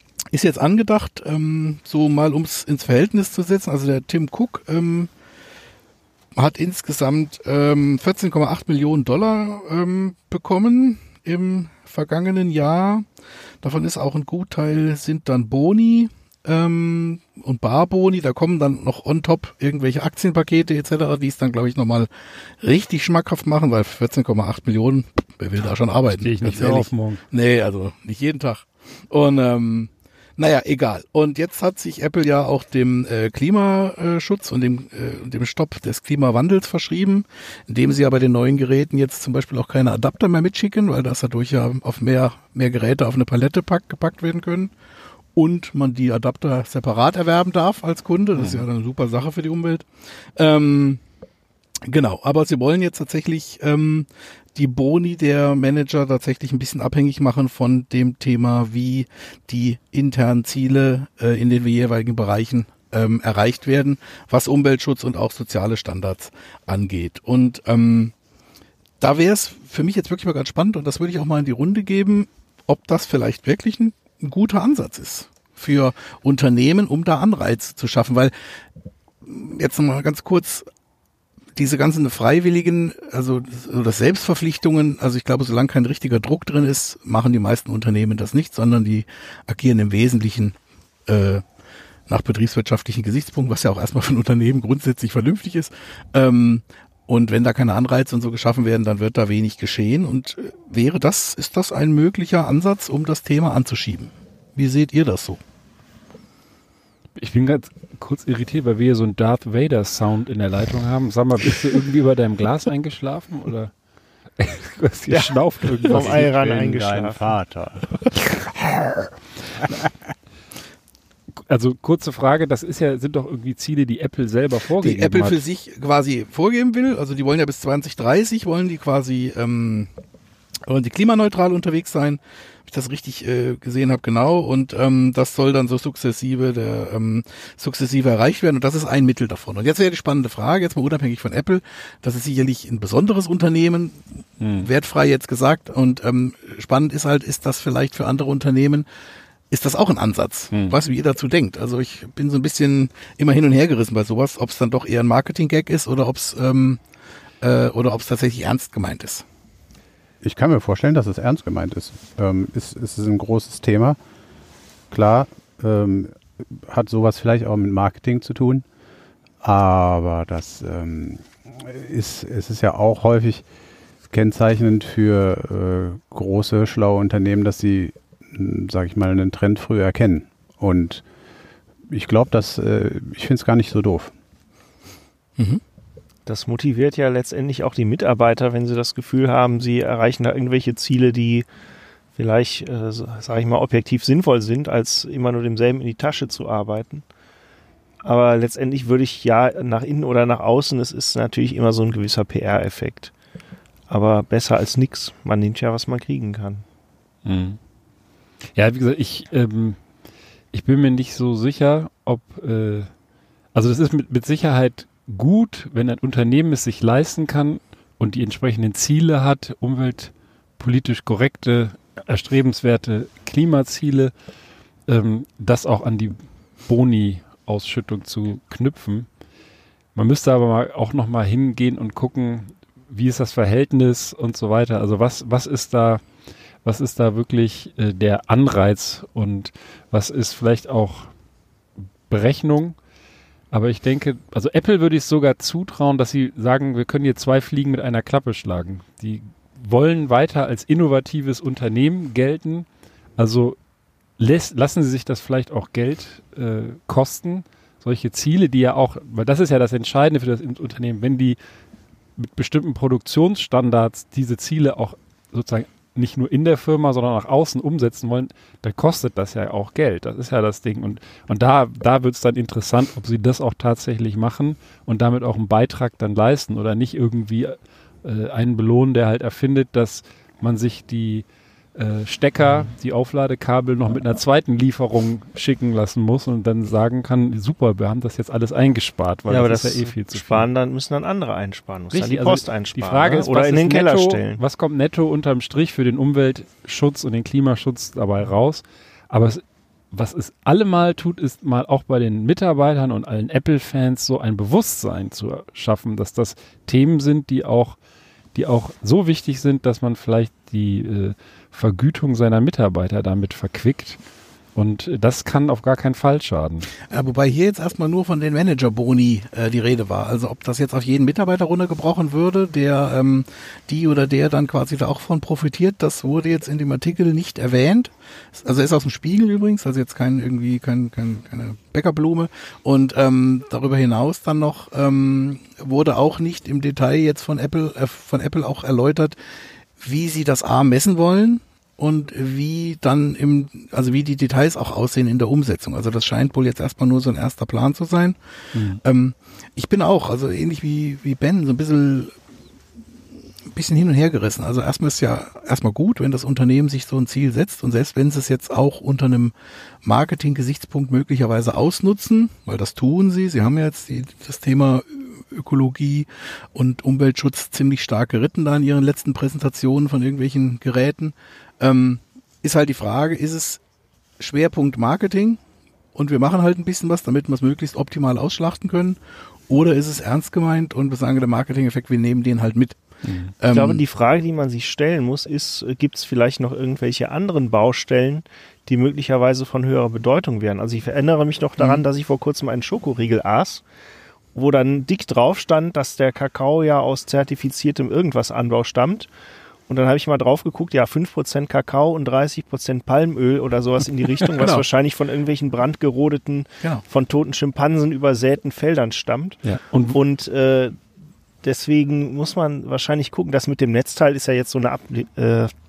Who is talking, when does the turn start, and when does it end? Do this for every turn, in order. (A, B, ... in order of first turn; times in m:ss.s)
0:00.3-0:05.1 A
0:06.3-0:13.0 A
0:13.6-0:22.1 A
0:22.6-0:44.7 A
0:26.2-0:27.2 B
0:45.3-0:51.0 A
0:48.4-0:48.6 B
0:51.8-1:08.1 A
1:09.0-1:18.3 A
1:19.2-1:20.7 A
1:21.6-1:30.6 A
1:31.1-1:31.4 A
1:32.1-1:45.4 A
1:47.2-1:53.7 B
1:54.4-1:56.4 B
1:55.1-1:57.3 C
1:55.9-1:57.9 D
2:01.5-2:05.4 B
2:04.8-2:09.9 A
2:10.6-2:24.1 A
2:24.4-2:24.7 B
2:24.6-2:28.8 A
2:29.5-2:36.8 A
2:37.4-2:39.2 A
2:40.2-2:44.0 D
2:44.9-2:48.6 D
2:49.4-2:53.4 D
2:54.1-3:01.0 D
3:01.9-3:04.1 D
3:06.3-3:11.4 C
3:12.2-3:17.0 C
3:18.0-3:23.1 C
3:23.9-3:26.6 C
3:27.2-3:27.6 B
3:28.5-3:29.8 B
3:30.5-3:32.9 B
3:33.5-3:44.1 B
3:44.9-3:49.1 B
3:49.9-3:56.0 B
3:56.6-4:01.1 B
4:02.1-4:02.8 B
4:03.5-4:12.7 B
4:13.2-4:13.6 B
4:14.2-4:21.4 B
4:22.2-4:50.5 B
4:49.3-4:54.4 C
4:51.9-5:07.8 B
5:08.3-5:14.0 B
5:14.5-5:16.7 B
5:16.9-5:39.2 A
5:39.8-5:48.2 A
5:48.5-5:48.8 B
5:48.8-5:52.1 A
5:53.5-6:13.6 A
6:14.2-6:15.4 A
6:15.9-6:22.8 A
6:23.0-6:23.3 B
6:23.4-6:23.8 A
6:23.4-6:33.6 C
6:34.3-6:39.1 C
6:39.7-6:50.7 C
6:44.4-6:44.6 A
6:49.4-6:50.0 B
6:51.4-6:55.5 C